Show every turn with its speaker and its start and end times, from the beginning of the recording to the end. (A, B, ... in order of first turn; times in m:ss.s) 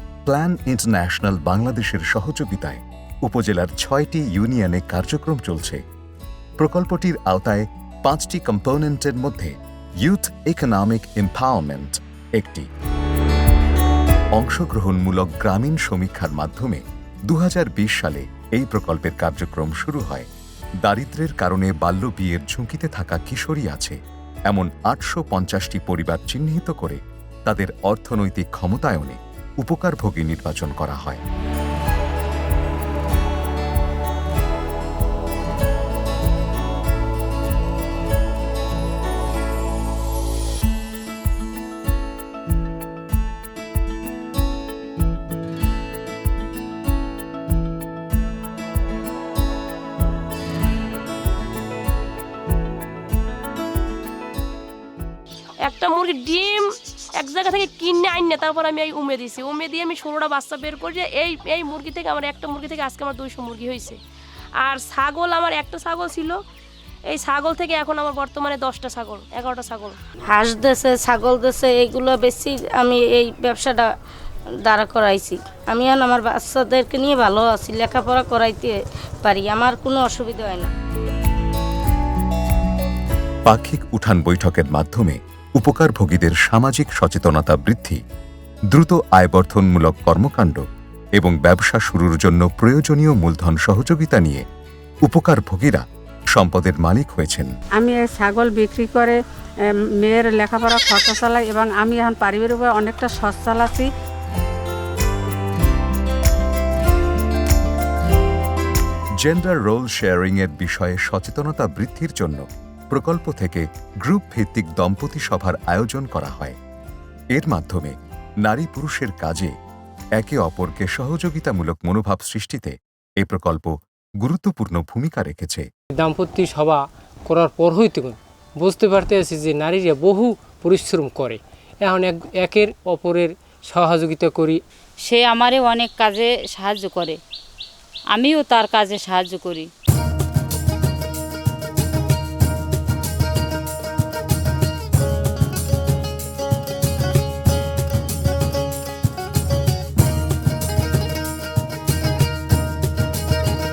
0:00.3-0:05.8 A
0:06.6-0:12.7 A
0:14.3-0:20.3 A
0:20.8-0:24.0 A
0:24.5-0:31.2 A
0:55.6-1:04.0 B
1:04.6-1:06.4 B
1:07.1-1:10.0 B
1:10.3-1:13.9 C
1:14.6-1:20.7 C
1:23.5-1:28.0 A
1:28.7-1:30.6 A
1:31.2-1:34.4 A
1:35.0-1:37.5 A
1:37.8-1:39.2 D
1:40.0-1:43.9 D
1:49.2-1:56.6 A
1:57.3-1:59.5 A
2:00.2-2:05.7 A
2:06.0-2:14.6 E
2:15.0-2:17.2 F
2:18.1-2:19.7 F